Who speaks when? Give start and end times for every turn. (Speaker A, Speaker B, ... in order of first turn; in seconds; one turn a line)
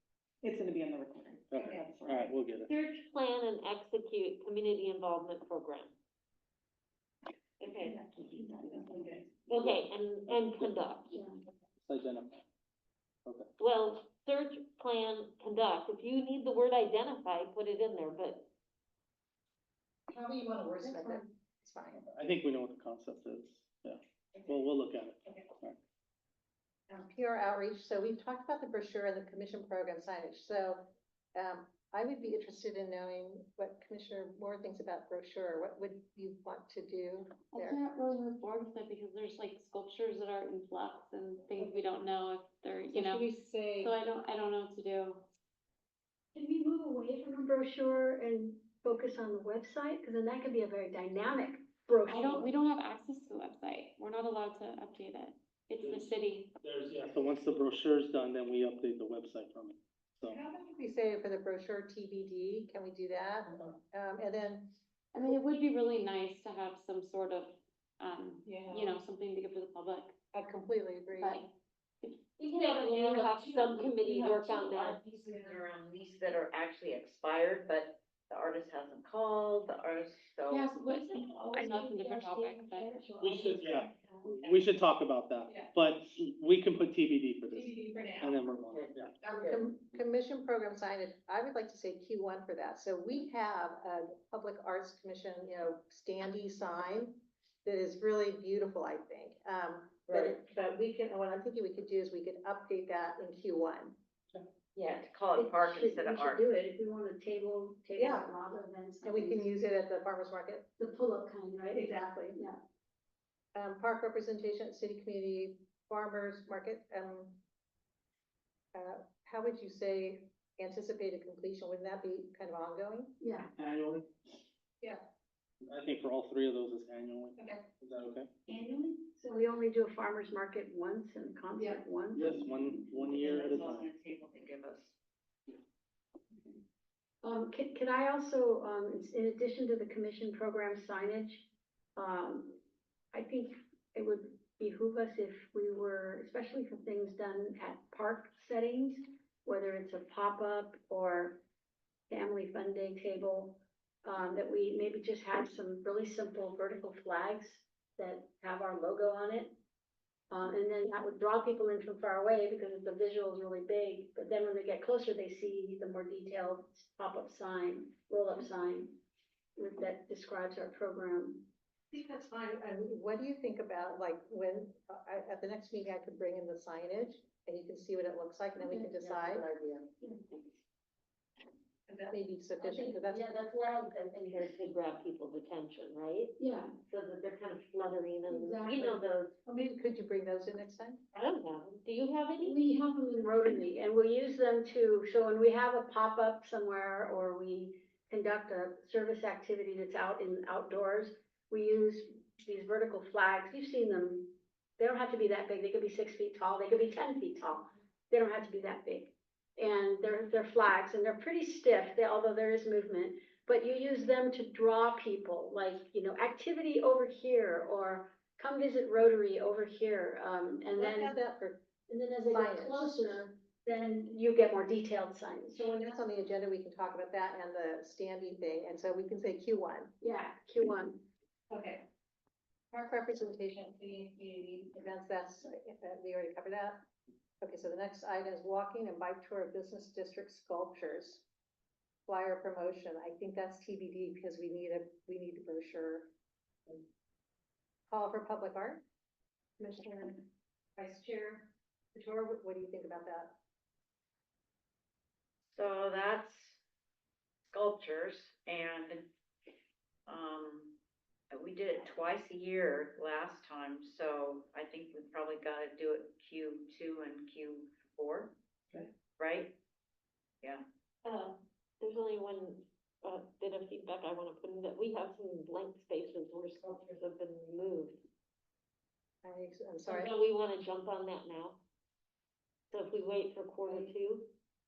Speaker A: 0.4-2.4
Speaker B: 1.5-2.7
Speaker C: 2.7-5.9
Speaker C: 7.6-8.0
Speaker A: 8.2-9.2
Speaker C: 9.5-11.1
Speaker B: 10.3-10.8
Speaker B: 11.8-12.4
Speaker C: 13.6-18.5
Speaker D: 20.1-22.0
Speaker E: 20.8-21.2
Speaker B: 22.1-25.8
Speaker D: 26.9-37.8
Speaker F: 37.5-45.3
Speaker D: 42.9-44.0
Speaker E: 46.4-52.5
Speaker F: 52.0-56.5
Speaker B: 55.8-56.1
Speaker B: 56.6-60.4
Speaker D: 60.3-64.7
Speaker F: 65.1-70.2
Speaker D: 68.5-69.0
Speaker D: 70.3-71.4
Speaker F: 71.2-71.5
Speaker C: 72.4-75.0
Speaker F: 72.8-73.2
Speaker G: 73.9-80.7
Speaker F: 80.5-83.0
Speaker C: 81.4-82.1
Speaker E: 81.5-83.2
Speaker C: 82.8-83.5
Speaker B: 83.2-89.2
Speaker G: 88.7-89.6
Speaker D: 89.4-104.0
Speaker G: 100.1-100.3
Speaker G: 104.8-106.4
Speaker E: 105.4-109.5
Speaker D: 108.0-108.3
Speaker D: 109.0-110.7
Speaker E: 110.8-112.6
Speaker D: 111.7-112.4
Speaker D: 113.5-117.4
Speaker D: 118.7-123.2
Speaker E: 123.2-123.5
Speaker B: 123.6-124.4
Speaker B: 125.6-128.3
Speaker E: 128.5-133.0
Speaker B: 132.1-133.9
Speaker G: 133.1-134.9
Speaker E: 137.2-142.6
Speaker E: 143.1-151.4
Speaker E: 152.1-159.6
Speaker E: 160.3-169.0
Speaker E: 169.6-171.4
Speaker D: 171.9-179.5
Speaker E: 178.6-178.9
Speaker G: 179.0-179.8
Speaker E: 180.0-180.4
Speaker D: 182.0-183.3
Speaker E: 182.6-184.4
Speaker C: 183.8-186.3
Speaker E: 186.4-186.8
Speaker C: 186.9-189.3
Speaker E: 188.3-189.1
Speaker D: 189.5-191.0
Speaker C: 191.1-192.6
Speaker E: 192.4-221.2
Speaker D: 220.8-221.6
Speaker E: 221.9-225.7
Speaker D: 222.3-222.9
Speaker D: 225.5-229.9
Speaker E: 230.0-231.0
Speaker D: 231.5-231.8
Speaker D: 232.7-236.8
Speaker D: 237.4-241.2
Speaker D: 242.1-246.1
Speaker D: 247.9-248.8
Speaker D: 249.6-253.4
Speaker G: 255.5-256.6
Speaker G: 257.5-259.1
Speaker G: 260.1-260.7
Speaker G: 261.3-268.4
Speaker G: 269.2-269.6
Speaker C: 271.0-278.0
Speaker D: 279.2-280.1
Speaker C: 279.9-281.6
Speaker C: 282.7-284.3
Speaker D: 283.6-283.9